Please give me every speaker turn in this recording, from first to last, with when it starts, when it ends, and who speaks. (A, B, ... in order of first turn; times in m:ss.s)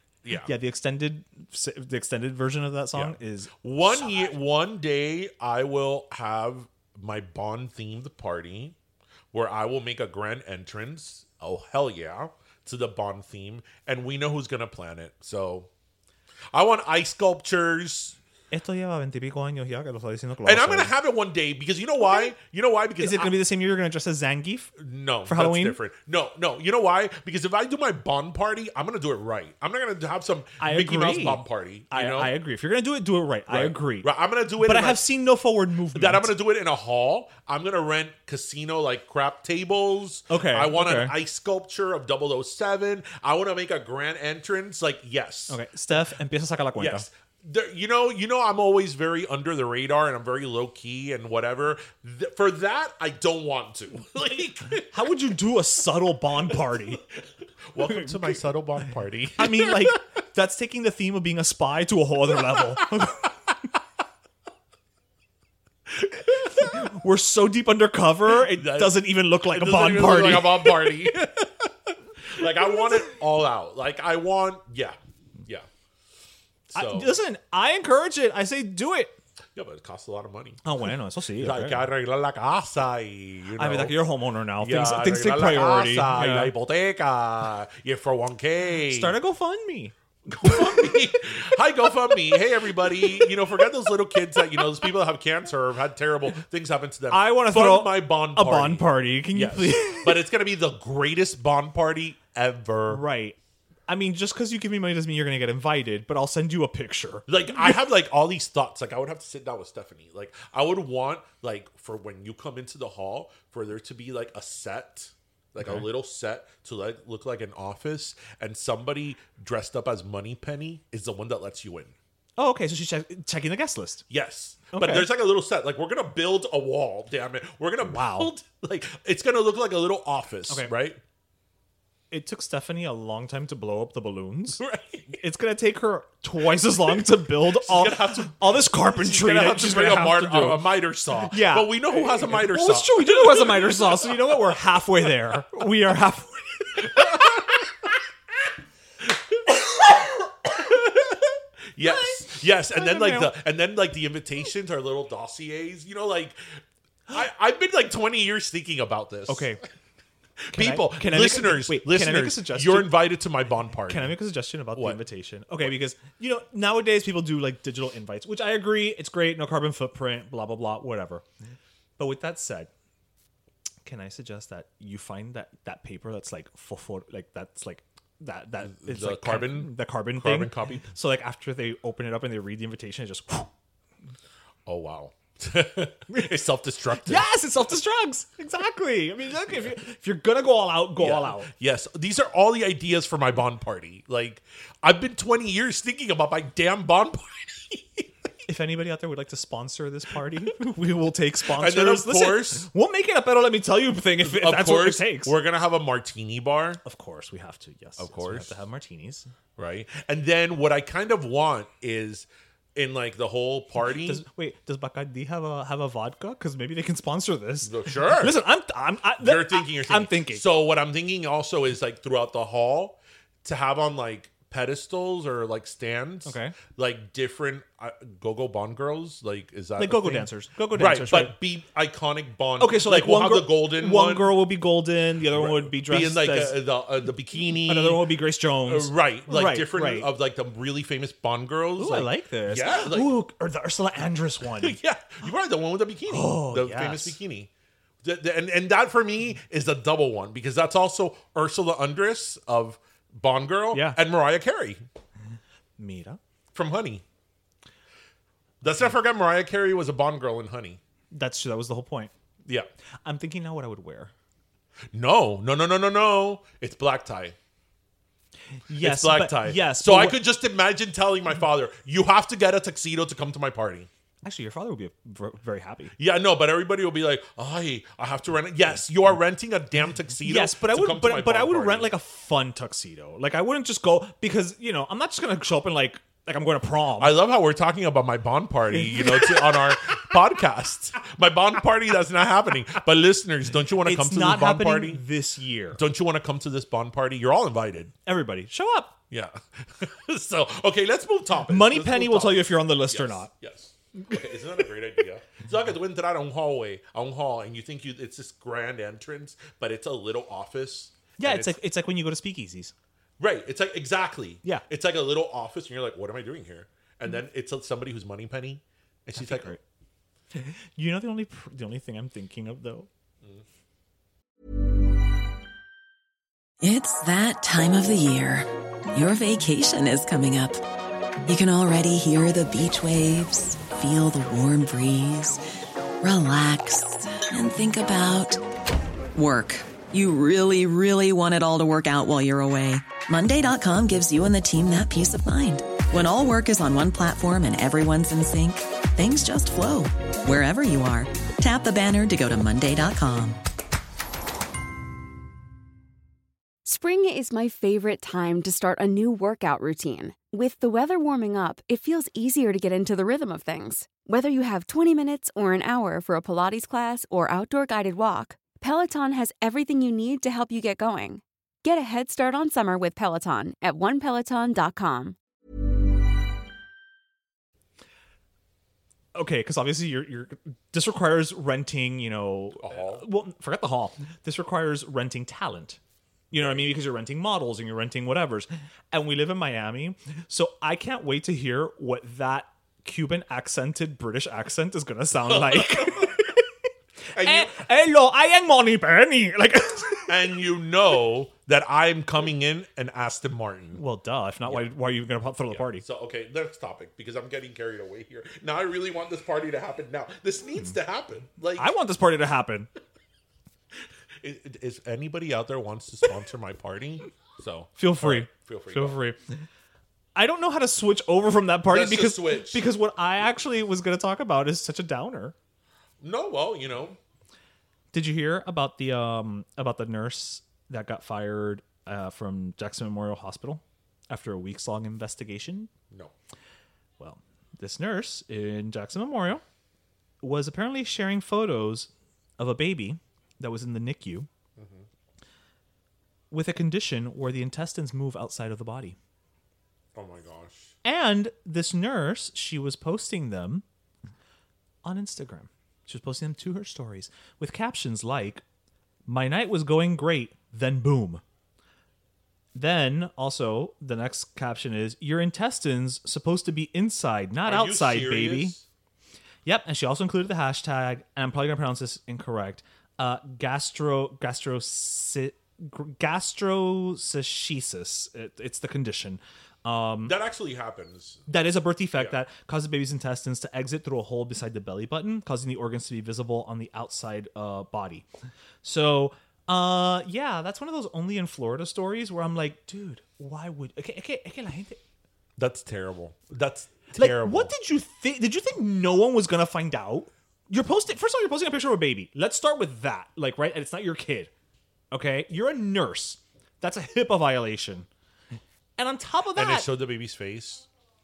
0:00.2-0:00.5 A
0:00.4-0:04.2 B
0:02.9-0:08.8 A
0:09.3-0:15.7 A
0:16.5-0:18.2 A
0:18.5-0:20.9 B
0:20.4-0:23.4 A
0:23.0-0:24.8 B
0:24.8-0:32.3 A
0:25.3-0:25.8 B
0:30.6-0:36.3 B
0:33.5-0:35.0 A
0:35.9-0:46.0 A
0:40.3-0:41.2 B
0:45.5-0:47.1 B
0:46.8-0:55.0 A
0:54.9-0:57.0 B
0:57.7-1:00.0 A
0:57.8-0:58.4 B
0:59.4-1:03.3 B
1:06.5-1:06.7 A
1:06.5-1:11.0 B
1:08.4-1:11.7 A
1:12.3-1:15.7 A
1:16.7-1:17.1 A
1:16.7-1:19.2 B
1:19.6-1:20.7 A
1:20.6-1:21.8 B
1:21.4-1:24.0 A
1:23.6-1:26.5 B
1:24.6-1:29.2 A
1:28.9-1:30.9 B
1:30.3-1:43.0 A
1:37.1-1:40.2 B
1:42.9-1:43.4 B
1:43.9-1:47.8 B
1:47.3-2:02.0 A
1:55.6-1:55.9 B
2:02.4-2:04.0 B
2:04.1-2:11.0 A
2:04.7-2:05.1 B
2:07.8-2:08.3 B
2:12.1-2:20.6 B
2:14.6-2:15.2 A
2:17.4-2:24.4 A
2:21.3-2:27.4 B
2:26.8-2:27.7 A
2:29.1-2:31.2 A
2:31.8-2:39.6 A
2:31.8-2:33.3 B
2:39.3-2:39.6 B
2:40.5-2:44.2 A
2:40.5-2:43.0 B
2:43.8-2:51.2 B
2:44.8-2:45.0 A
2:52.0-2:52.7 B
2:53.8-3:03.5 B
2:58.6-3:00.9 A
3:04.7-3:07.3 A
3:06.9-3:11.5 B
3:11.0-3:18.1 A
3:18.5-3:25.4 B
3:21.5-3:22.7 A
3:24.2-3:26.8 A
3:26.8-3:29.3 B
3:28.0-3:28.5 A
3:29.6-3:34.2 A
3:33.8-3:40.4 B
3:37.6-3:38.4 A
3:39.2-3:54.4 A
3:46.2-3:46.6 B
3:49.8-3:51.3 B
3:52.6-3:56.6 B
3:55.3-3:58.0 A
3:57.7-4:00.1 B
3:58.7-4:03.2 A
4:01.8-4:04.8 B
4:04.6-4:07.5 A
4:06.1-4:07.2 B
4:08.0-4:14.8 A
4:13.7-4:14.0 B
4:15.8-4:16.2 B
4:16.5-4:17.0 A
4:18.6-4:20.8 A
4:21.1-4:22.1 B
4:23.0-4:24.1 B
4:24.9-4:27.4 A
4:28.7-4:30.2 B
4:28.8-4:33.9 A
4:34.2-4:35.9 B
4:36.0-4:41.9 A
4:40.2-4:47.2 B
4:47.0-4:55.0 A
4:48.7-4:49.6 B
4:53.8-4:55.8 B
4:55.7-4:57.9 A
4:58.0-4:59.0 B
4:59.1-5:11.6 A
5:01.5-5:03.3 B
5:11.2-5:12.7 B
5:13.2-5:19.6 A
5:19.2-5:19.6 B
5:20.4-5:22.9 B
5:26.6-5:30.6 C
5:31.3-5:35.4 C
5:36.0-5:38.4 C
5:39.2-5:53.4 C
5:56.6-6:15.2 D
6:19.1-6:25.8 B
6:22.6-6:23.1 A
6:26.3-6:36.5 B
6:26.4-6:26.6 A
6:35.2-6:36.2 A
6:37.1-6:37.6 A
6:37.2-6:40.1 B
6:40.1-6:43.8 A
6:43.8-6:45.8 B
6:44.4-6:44.7 A
6:45.5-6:51.7 A
6:51.6-6:52.7 B
6:54.2-6:59.0 A
6:57.8-6:59.2 B
7:00.2-7:05.4 B
7:01.7-7:02.6 A
7:06.0-7:07.0 A
7:07.9-7:15.7 B
7:17.0-7:19.4 B
7:20.2-7:24.3 B
7:24.6-7:24.9 A
7:26.3-7:29.0 B
7:30.0-7:30.8 A
7:30.8-7:33.6 B
7:34.8-7:38.4 B
7:39.1-7:41.2 B
7:42.6-7:48.6 B
7:47.4-7:48.7 A
7:49.4-8:00.2 B
8:00.0-8:01.2 A
8:01.3-8:08.1 B
8:08.6-8:14.8 B
8:15.4-8:17.5 A
8:17.0-8:24.3 B
8:24.9-8:27.9 B
8:28.8-8:29.7 B
8:29.3-8:30.7 A